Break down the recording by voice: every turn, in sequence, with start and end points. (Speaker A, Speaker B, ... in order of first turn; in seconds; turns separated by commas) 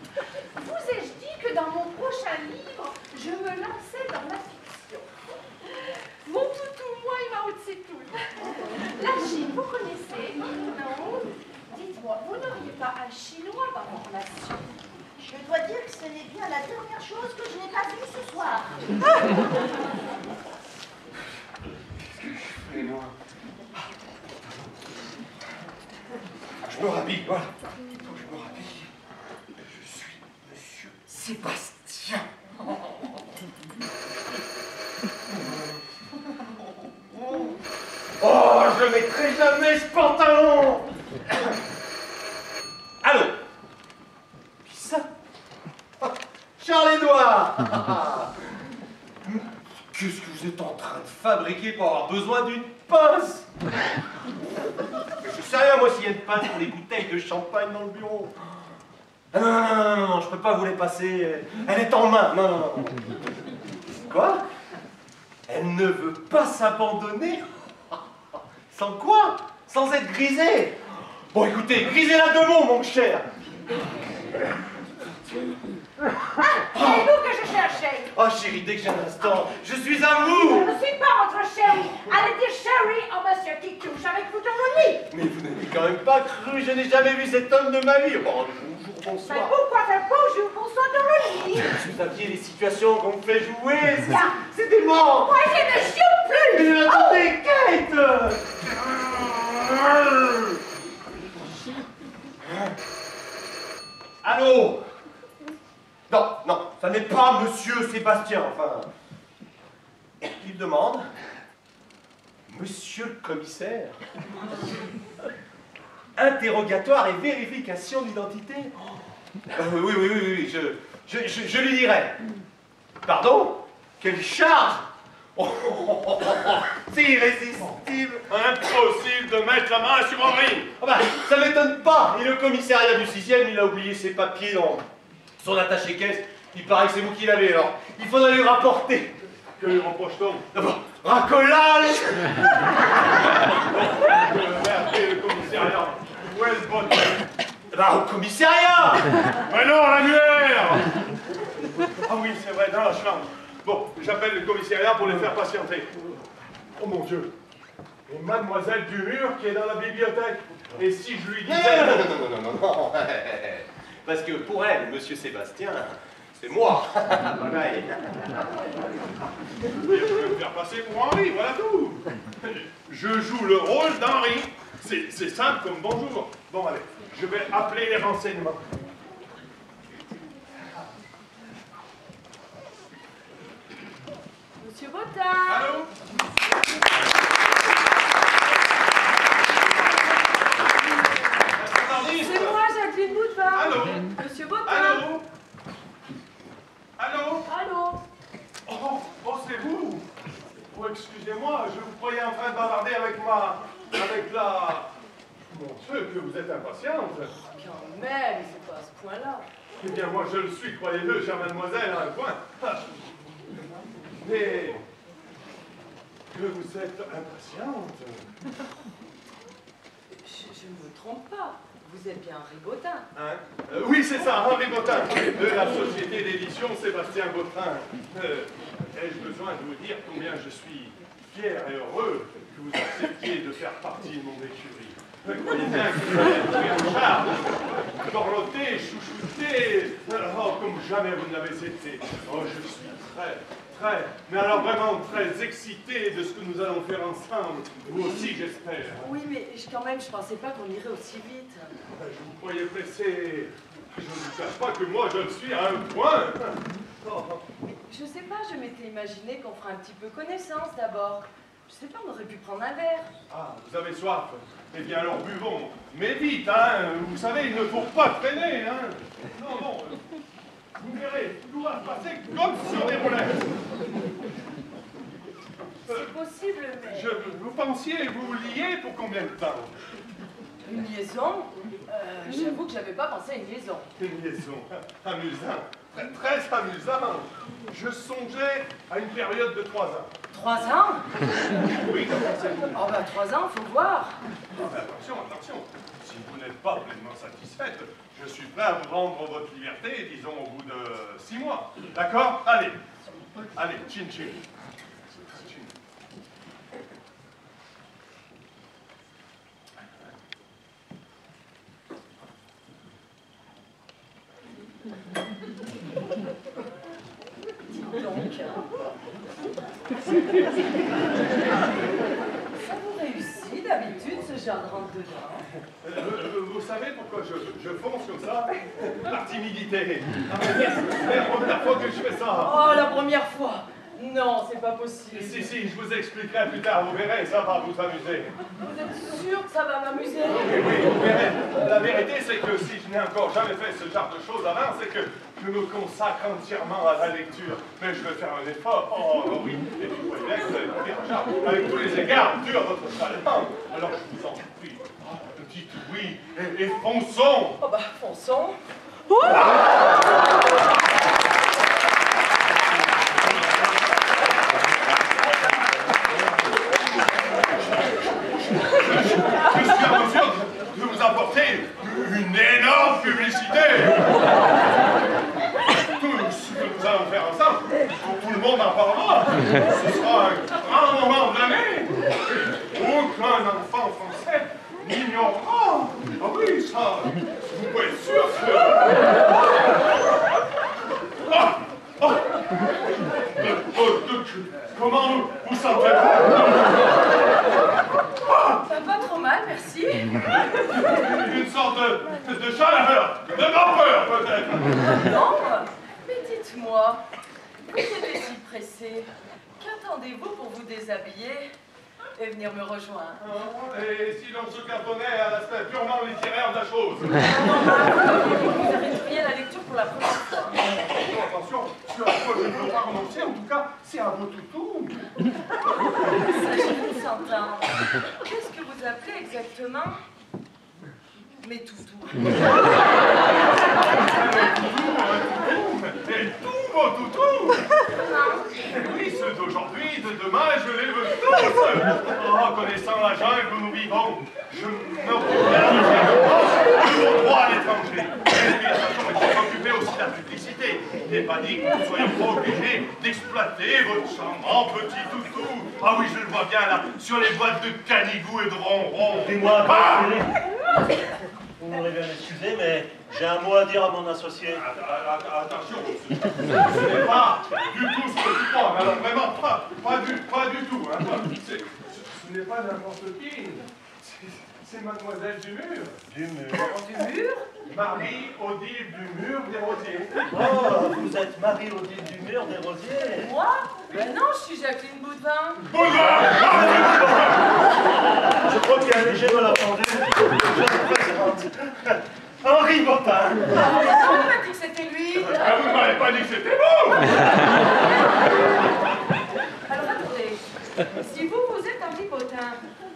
Speaker A: 0.6-5.1, Speaker A: 5.7-14.8, Speaker B: 15.2-18.8, Speaker C: 22.2-23.1, Speaker C: 26.6-28.9, Speaker C: 29.6-33.1, Speaker C: 35.3-35.8, Speaker C: 36.6-37.6, Speaker C: 38.2-41.5, Speaker C: 43.0-43.4, Speaker C: 44.6-45.1, Speaker C: 46.0-48.4, Speaker C: 49.2-53.5, Speaker C: 55.2-58.4, Speaker C: 59.3-63.1, Speaker C: 63.9-64.5, Speaker C: 65.5-68.0, Speaker C: 68.7-70.8, Speaker C: 71.3-73.3, Speaker B: 76.4-78.0, Speaker A: 76.8-78.0, Speaker C: 76.8-77.1, Speaker C: 78.1-80.7, Speaker B: 80.3-85.1, Speaker A: 80.5-81.3, Speaker A: 81.8-83.8, Speaker C: 85.1-89.5, Speaker B: 89.3-91.6, Speaker A: 90.9-91.2, Speaker C: 91.5-100.6, Speaker A: 95.3-96.8, Speaker B: 95.4-97.2, Speaker C: 104.2-104.8, Speaker C: 106.1-108.9, Speaker C: 110.2-111.1, Speaker C: 112.5-114.0, Speaker C: 116.2-118.7, Speaker C: 119.5-122.2, Speaker C: 123.0-128.2, Speaker D: 128.3-130.8, Speaker C: 130.8-134.9, Speaker C: 135.4-139.2, Speaker D: 139.6-140.5, Speaker C: 140.5-142.7, Speaker D: 143.8-147.3, Speaker C: 147.7-149.1, Speaker D: 149.5-151.0, Speaker D: 152.0-156.1, Speaker D: 156.8-157.3, Speaker D: 158.1-162.1, Speaker C: 161.4-168.4, Speaker D: 169.8-178.7, Speaker E: 184.6-185.9, Speaker D: 185.5-185.9, Speaker E: 189.6-191.4, Speaker D: 191.5-192.6, Speaker E: 191.9-195.1, Speaker D: 193.5-195.2, Speaker D: 197.0-197.5, Speaker E: 197.5-198.0, Speaker D: 198.7-200.1, Speaker D: 200.7-204.9, Speaker D: 205.5-207.3, Speaker E: 207.4-209.5, Speaker D: 209.8-212.9, Speaker D: 214.2-214.8, Speaker D: 216.3-218.3, Speaker E: 220.2-223.1, Speaker D: 223.2-249.1, Speaker E: 249.0-251.7, Speaker D: 251.9-257.5, Speaker E: 257.7-263.1, Speaker D: 263.3-270.0, Speaker D: 270.8-273.5, Speaker E: 275.9-277.2, Speaker D: 276.8-279.8, Speaker E: 280.6-283.9, Speaker D: 284.0-290.1, Speaker E: 290.3-291.1, Speaker D: 291.6-292.9, Speaker E: 292.7-294.2, Speaker D: 294.6-302.8, Speaker D: 303.4-304.4, Speaker D: 305.2-305.7, Speaker E: 317.6-318.6, Speaker E: 320.2-321.2, Speaker E: 322.5-325.4, Speaker D: 325.8-332.7, Speaker E: 332.4-335.5, Speaker D: 335.1-338.3, Speaker E: 338.6-340.8, Speaker D: 340.2-357.6, Speaker E: 357.6-358.6, Speaker D: 368.8-374.2, Speaker D: 375.9-389.1, Speaker D: 391.3-392.4, Speaker D: 393.1-396.8, Speaker E: 398.4-400.3, Speaker D: 400.3-404.9, Speaker E: 404.9-407.0, Speaker E: 407.7-411.5, Speaker E: 412.2-413.2, Speaker D: 413.2-417.3, Speaker E: 417.2-420.6, Speaker D: 420.7-425.0, Speaker E: 425.9-430.0, Speaker E: 431.4-433.1, Speaker D: 433.8-437.7, Speaker E: 437.9-438.5, Speaker D: 438.6-460.3, Speaker F: 459.2-460.4, Speaker F: 461.6-464.6, Speaker D: 464.5-476.0, Speaker C: 476.1-476.8, Speaker E: 476.5-477.5, Speaker D: 477.6-480.2, Speaker F: 480.3-483.3, Speaker E: 483.1-485.7, Speaker D: 485.7-487.5, Speaker F: 486.2-487.4, Speaker F: 488.4-493.6, Speaker E: 493.5-495.7, Speaker D: 495.2-497.5, Speaker E: 498.2-498.6, Speaker E: 499.7-502.6